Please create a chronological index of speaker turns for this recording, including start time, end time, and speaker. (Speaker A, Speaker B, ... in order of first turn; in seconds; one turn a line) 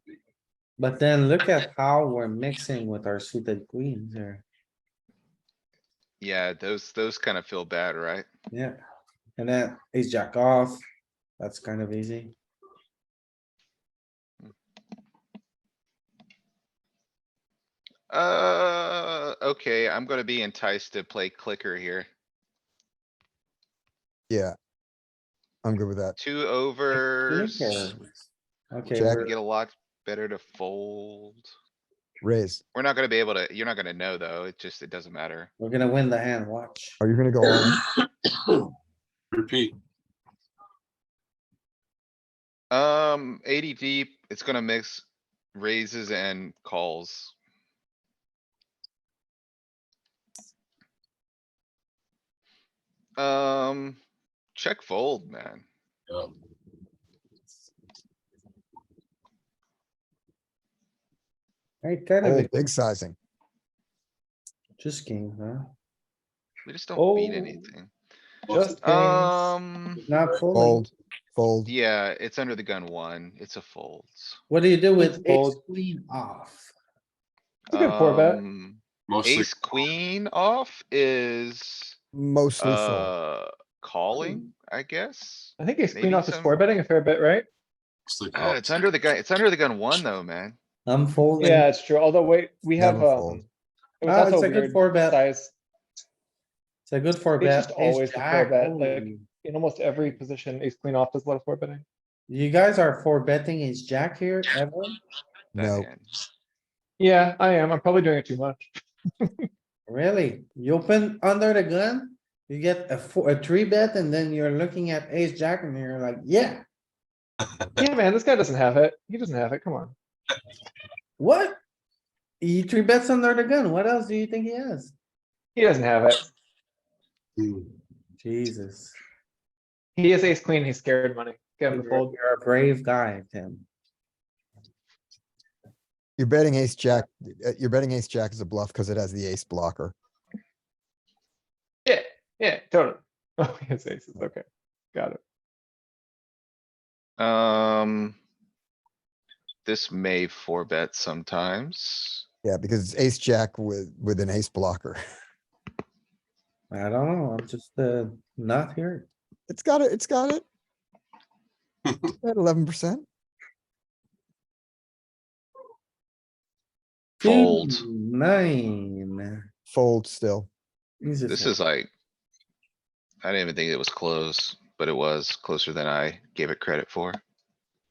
Speaker A: 0.8-4.4
Speaker B: 6.2-8.2
Speaker A: 9.4-10.8
Speaker A: 11.4-12.3
Speaker B: 18.1-22.1
Speaker C: 24.3-24.5
Speaker C: 25.6-26.1
Speaker B: 26.2-27.9
Speaker A: 26.9-29.3
Speaker C: 28.9-29.3
Speaker B: 29.0-31.5
Speaker C: 32.2-32.6
Speaker B: 32.7-35.5
Speaker A: 35.6-37.0
Speaker C: 37.0-37.8
Speaker D: 39.3-39.7
Speaker B: 42.7-47.3
Speaker B: 53.2-54.0
Speaker B: 54.5-55.6
Speaker A: 61.8-62.6
Speaker C: 62.2-63.1
Speaker A: 64.8-65.7
Speaker B: 66.6-67.9
Speaker A: 67.0-67.7
Speaker D: 68.5-68.8
Speaker E: 68.5-69.5
Speaker B: 68.8-70.0
Speaker D: 70.0-70.5
Speaker A: 70.1-70.9
Speaker C: 70.5-71.7
Speaker B: 71.7-74.4
Speaker A: 74.5-76.7
Speaker E: 75.0-75.6
Speaker E: 77.7-78.4
Speaker B: 77.7-82.0
Speaker D: 79.1-79.5
Speaker C: 82.1-83.1
Speaker B: 82.6-86.6
Speaker E: 85.6-87.5
Speaker D: 88.0-88.8
Speaker B: 88.3-90.6
Speaker A: 90.8-91.7
Speaker E: 91.4-93.5
Speaker C: 92.8-93.4
Speaker E: 94.0-95.5
Speaker A: 94.0-95.2
Speaker A: 96.9-99.2
Speaker E: 97.4-101.8
Speaker A: 102.3-105.0
Speaker B: 105.5-106.1
Speaker C: 105.5-105.9
Speaker E: 107.0-108.7
Speaker E: 109.2-109.5
Speaker A: 109.9-116.6
Speaker E: 117.8-119.9
Speaker A: 121.2-121.6
Speaker A: 122.4-124.9
Speaker E: 125.5-126.3
Speaker D: 127.4-127.7
Speaker A: 128.2-128.9
Speaker E: 129.9-132.1
Speaker A: 131.7-133.7
Speaker C: 136.2-139.9
Speaker E: 141.8-145.2
Speaker B: 147.2-148.2
Speaker B: 149.6-152.2
Speaker C: 152.4-155.0
Speaker A: 156.7-159.1
Speaker C: 159.5-160.4
Speaker D: 161.8-162.1
Speaker C: 162.2-163.1
Speaker B: 167.2-167.8
Speaker A: 167.2-169.4
Speaker C: 169.7-170.5
Speaker A: 171.0-171.6
Speaker B: 171.3-171.9
Speaker B: 173.2-177.2